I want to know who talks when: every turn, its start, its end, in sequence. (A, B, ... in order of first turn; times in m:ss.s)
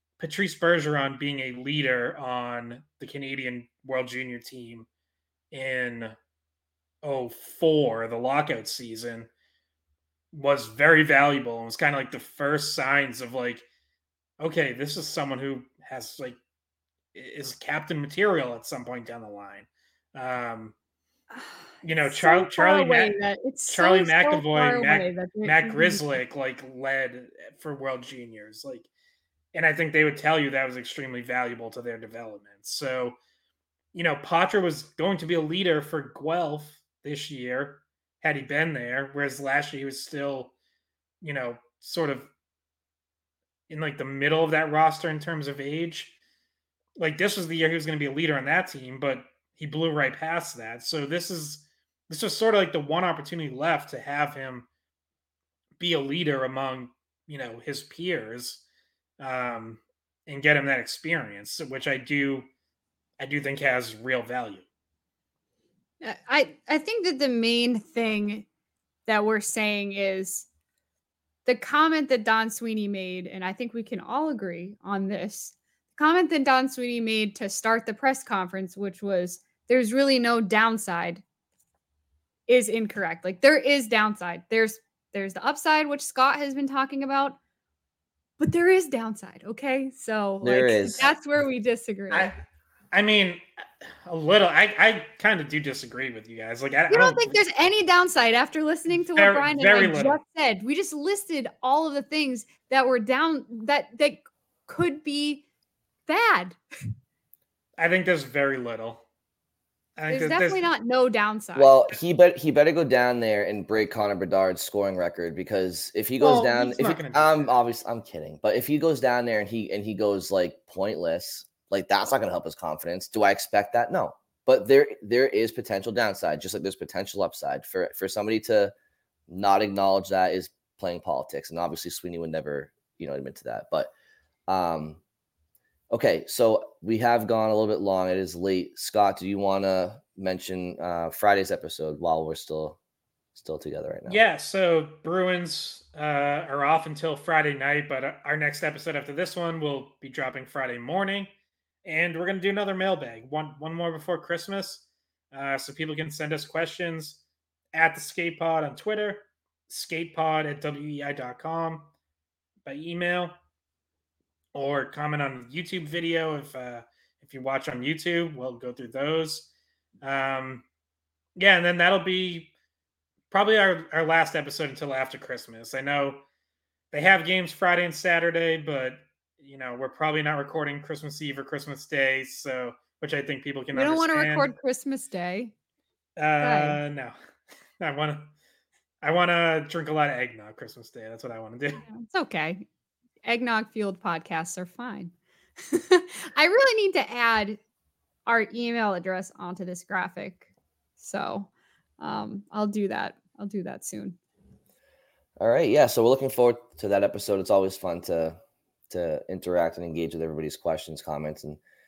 0:00.2-0:04.9 A
0:05.5-0:06.1 A
0:07.0-0:09.3 A
0:10.3-0:13.6 A
0:14.4-0:16.4 A
0:17.1-0:20.7 A
0:21.3-0:26.2 B
0:21.8-0:23.2 A
0:23.7-0:28.9 A
0:29.5-0:33.2 A
0:33.9-0:40.5 A
0:41.2-0:42.3 A
0:43.7-0:46.1 A
0:47.0-0:54.7 A
0:55.8-0:58.6 A
0:59.2-1:02.5 A
1:03.2-1:04.6 A
1:06.0-1:08.4 B
1:09.1-1:10.5 B
1:11.4-1:21.2 B
1:22.5-1:27.4 B
1:28.4-1:32.3 B
1:30.4-1:31.1 C
1:32.1-1:32.4 A
1:32.9-1:33.4 A
1:34.0-1:37.4 A
1:36.9-1:45.4 B
1:39.1-1:40.2 A
1:46.1-1:46.6 B
1:47.8-1:49.0 A
1:50.0-1:50.7 A
1:50.1-1:51.7 B
1:51.6-2:08.7 C
1:56.2-1:57.5 A
2:09.3-2:13.9 C
2:14.5-2:15.0 C
2:15.9-2:22.8 C
2:23.3-2:24.2 C
2:24.1-2:31.3 A
2:31.8-2:37.2 A
2:37.7-2:41.9 A
2:42.6-2:43.4 A
2:44.5-2:49.5 A
2:50.0-2:50.6 A
2:51.4-2:52.5 A
2:53.3-2:56.2 A
2:56.9-3:04.5 A
3:03.7-3:05.5 B
3:06.2-3:07.2 A
3:06.4-3:06.8 B
3:07.8-3:08.3 A
3:09.0-3:11.8 A
3:11.8-3:12.6 B
3:13.2-3:15.1 B
3:15.7-3:17.6 B
3:18.3-3:20.5 B
3:21.0-3:21.5 B
3:22.0-3:24.2 B
3:25.4-3:28.4 C
3:28.9-3:31.6 C